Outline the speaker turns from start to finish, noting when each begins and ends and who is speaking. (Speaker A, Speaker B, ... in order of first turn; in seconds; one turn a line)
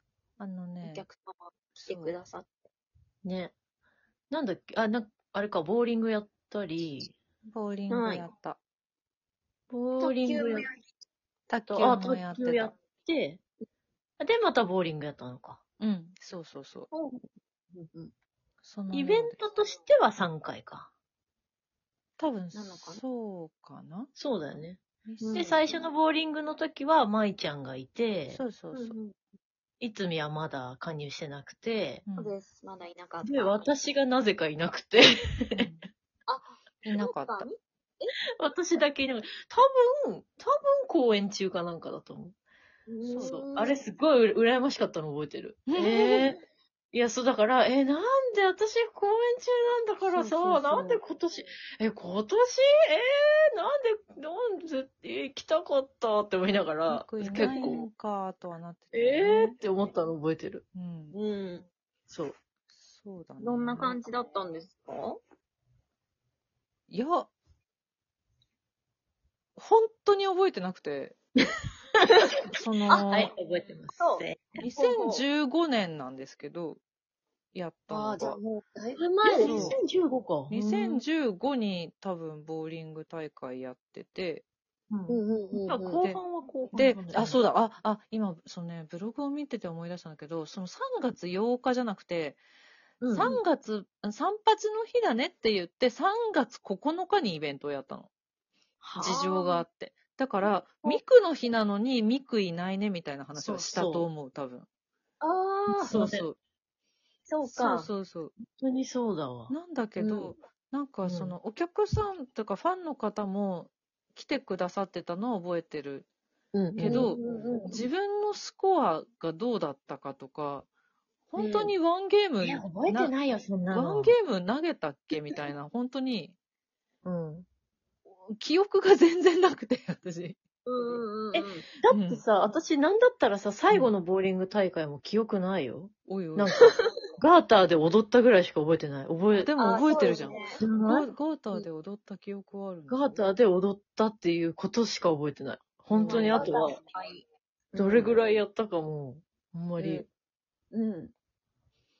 Speaker A: 0.4-1.1
Speaker B: 0.8-2.6
Speaker A: 1.8-2.2
Speaker C: 3.2-3.5
Speaker C: 4.3-7.2
Speaker A: 7.5-8.6
Speaker B: 7.9-8.3
Speaker C: 9.7-10.7
Speaker B: 10.0-10.8
Speaker A: 11.5-12.8
Speaker C: 11.7-13.4
Speaker C: 14.2-15.6
Speaker A: 15.8-16.9
Speaker B: 16.9-18.1
Speaker A: 18.6-19.4
Speaker C: 18.9-20.9
Speaker A: 22.2-24.1
Speaker B: 22.5-23.0
Speaker C: 24.1-24.8
Speaker A: 25.1-25.7
Speaker B: 25.2-25.5
Speaker C: 25.3-28.4
Speaker A: 28.3-28.9
Speaker B: 28.7-29.1
Speaker C: 29.8-32.0
Speaker A: 32.1-32.4
Speaker B: 32.2-33.6
Speaker C: 33.2-35.7
Speaker A: 35.5-35.8
Speaker B: 36.3-38.1
Speaker A: 36.9-37.5
Speaker C: 38.4-42.4
Speaker B: 42.9-43.8
Speaker A: 43.0-43.4
Speaker C: 43.2-46.4
Speaker A: 45.7-46.3
Speaker C: 46.9-57.9
Speaker A: 50.0-51.0
Speaker A: 56.9-59.6
Speaker C: 58.9-60.6
Speaker A: 60.7-61.2
Speaker B: 61.1-61.7
Speaker C: 62.1-62.4
Speaker A: 62.7-64.0
Speaker B: 63.4-65.2
Speaker A: 66.9-67.3
Speaker A: 69.6-71.2
Speaker A: 72.5-73.3
Speaker C: 73.0-74.6
Speaker B: 74.0-75.2
Speaker A: 74.6-76.8
Speaker A: 77.5-78.4
Speaker B: 77.9-79.8
Speaker C: 79.0-81.0
Speaker A: 79.3-79.8
Speaker A: 80.5-84.4
Speaker C: 84.9-87.4
Speaker B: 85.1-86.0
Speaker A: 86.7-92.4
Speaker C: 93.0-93.4
Speaker A: 93.1-98.1
Speaker C: 98.8-99.2
Speaker A: 99.0-104.7
Speaker B: 99.0-99.6
Speaker C: 103.3-104.1
Speaker B: 105.2-106.0
Speaker A: 105.7-106.4
Speaker C: 105.9-106.2
Speaker B: 107.3-107.9
Speaker A: 107.5-108.3
Speaker C: 108.5-109.5
Speaker A: 109.5-116.1
Speaker B: 110.0-110.3
Speaker C: 111.0-111.4
Speaker C: 116.5-117.1
Speaker A: 116.8-120.7
Speaker B: 116.8-117.9
Speaker A: 121.3-123.1
Speaker B: 121.4-121.7
Speaker C: 122.4-124.2
Speaker A: 123.7-126.3
Speaker C: 127.0-127.5
Speaker A: 128.3-130.4
Speaker B: 130.7-131.7
Speaker C: 131.3-141.1
Speaker A: 131.9-132.2
Speaker A: 136.1-136.7
Speaker A: 139.3-143.2
Speaker B: 139.6-140.6
Speaker C: 142.9-146.8
Speaker A: 145.9-146.5
Speaker B: 146.0-148.2
Speaker C: 147.8-150.1
Speaker B: 149.8-150.1
Speaker B: 150.7-151.1